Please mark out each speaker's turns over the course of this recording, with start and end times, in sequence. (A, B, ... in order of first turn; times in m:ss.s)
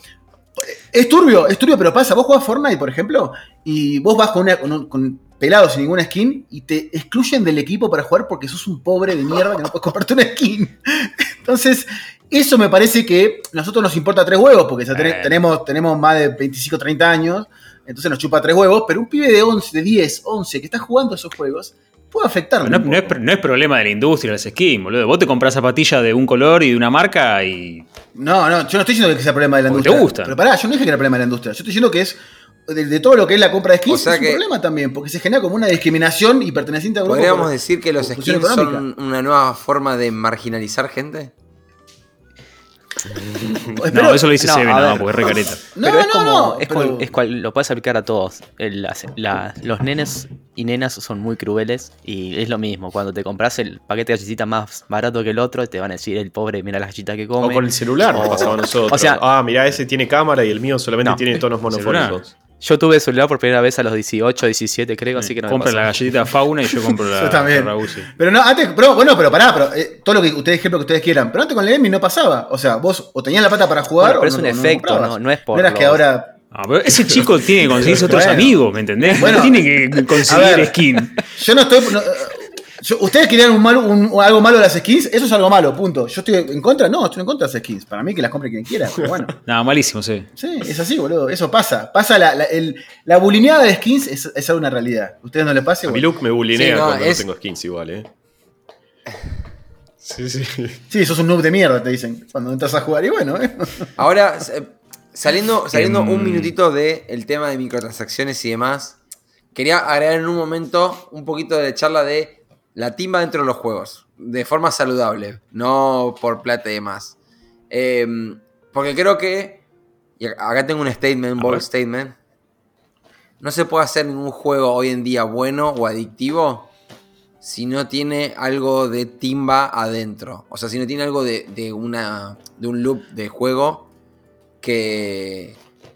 0:00.6-0:23.2 A
0:14.9-0:15.4 B
0:22.6-0:27.8 B
0:28.1-0:38.8 A
0:29.7-0:30.4 B
0:33.9-0:34.4 C
0:37.0-0:41.3 C
0:43.6-0:44.3 A
0:43.9-0:45.6 B
0:44.4-0:59.2 D
0:45.2-0:47.1 A
0:57.4-1:02.3 E
1:01.7-1:02.2 B
1:02.6-1:06.2 D
1:05.2-1:08.1 B
1:07.1-1:16.3 A
1:14.0-1:16.0 D
1:16.5-1:21.2 B
1:17.8-1:18.6 A
1:19.1-1:19.7 A
1:20.2-1:20.8 A
1:21.4-1:29.3 A
1:29.5-1:30.3 B
1:30.4-1:36.1 A
1:35.8-1:38.1 E
1:36.5-1:37.3 C
1:40.0-1:40.8 E
1:40.9-1:43.9 A
1:44.0-1:49.0 C
1:45.7-1:46.5 E
1:45.9-1:46.4 B
1:49.5-1:57.2 C
1:57.7-1:59.6 C
2:00.2-2:02.2 C
2:01.4-2:01.6 B
2:03.4-2:06.7 C
2:07.4-2:13.9 C
2:14.6-2:15.6 C